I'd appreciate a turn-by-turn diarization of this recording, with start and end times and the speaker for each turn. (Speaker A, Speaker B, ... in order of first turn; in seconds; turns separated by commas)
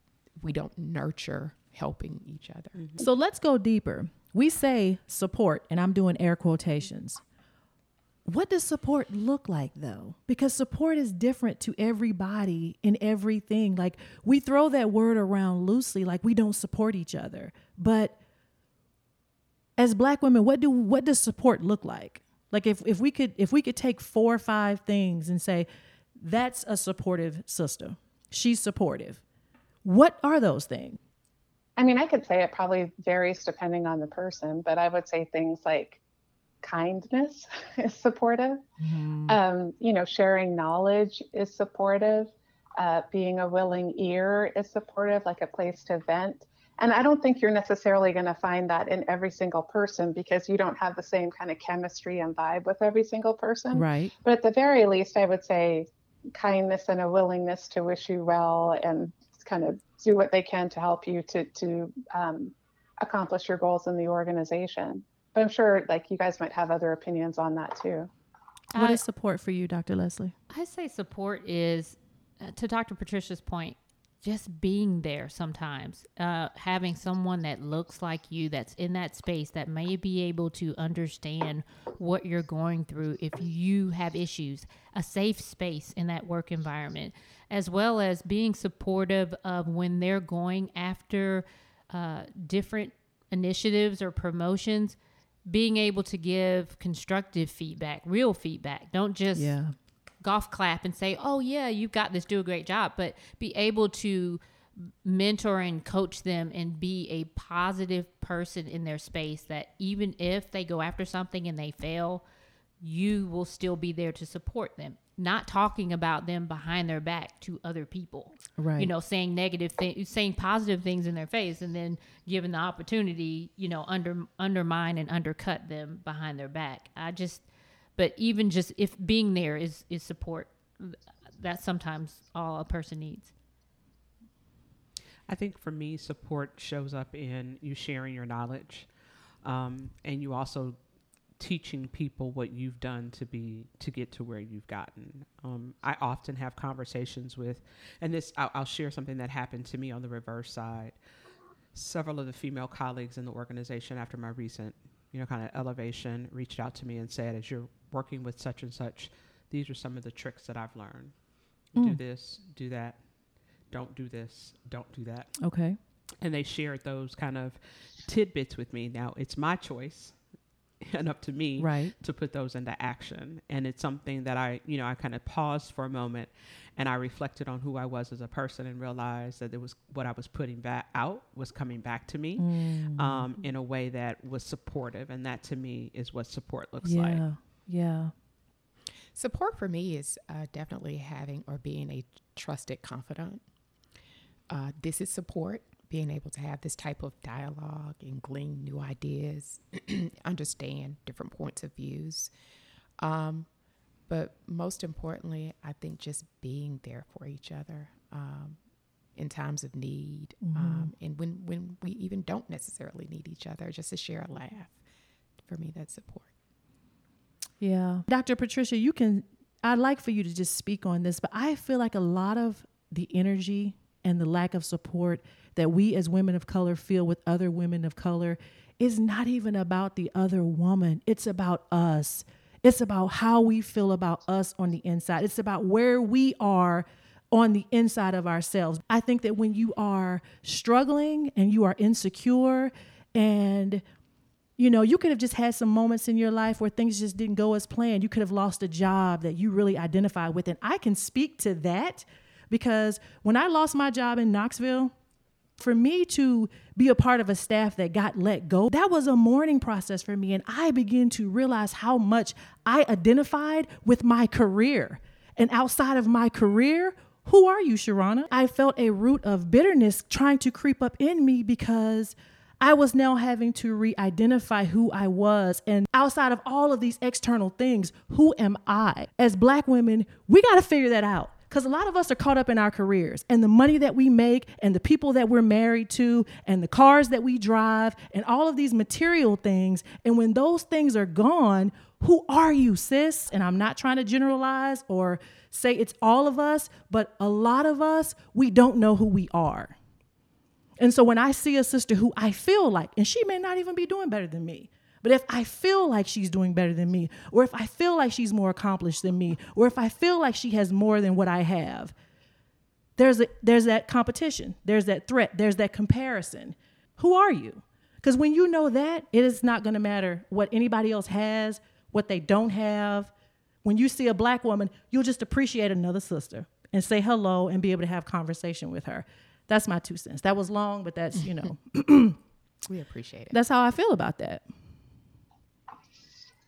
Speaker A: 0.4-2.9, Speaker B: 2.8-3.0, Speaker C: 3.0-7.2, Speaker C: 8.3-18.2, Speaker C: 19.8-25.7, Speaker C: 26.2-29.2, Speaker C: 29.8-31.0, Speaker D: 31.8-36.0, Speaker D: 36.6-38.6, Speaker C: 38.8-39.4, Speaker D: 39.3-68.1, Speaker C: 53.7-54.1, Speaker E: 68.7-69.0, Speaker C: 68.8-70.3, Speaker E: 70.5-99.5, Speaker C: 99.3-99.7, Speaker E: 100.2-112.2, Speaker E: 112.8-133.3, Speaker C: 118.6-118.9, Speaker B: 135.3-138.9, Speaker B: 139.4-140.8, Speaker B: 141.4-151.0, Speaker B: 151.7-161.2, Speaker B: 161.7-163.1, Speaker B: 163.7-165.4, Speaker C: 165.4-165.8, Speaker B: 166.2-170.2, Speaker B: 170.8-187.2, Speaker C: 171.6-171.9, Speaker C: 182.4-183.2, Speaker C: 186.8-188.1, Speaker A: 189.1-193.4, Speaker A: 194.5-202.3, Speaker A: 203.0-203.5, Speaker A: 204.1-208.6, Speaker A: 209.2-214.8, Speaker C: 210.4-210.9, Speaker A: 215.4-216.3, Speaker C: 217.6-243.8, Speaker C: 244.6-254.9, Speaker C: 255.6-299.8, Speaker C: 300.8-311.9, Speaker C: 313.0-323.1, Speaker C: 323.6-332.2, Speaker A: 332.7-333.4, Speaker C: 333.3-334.4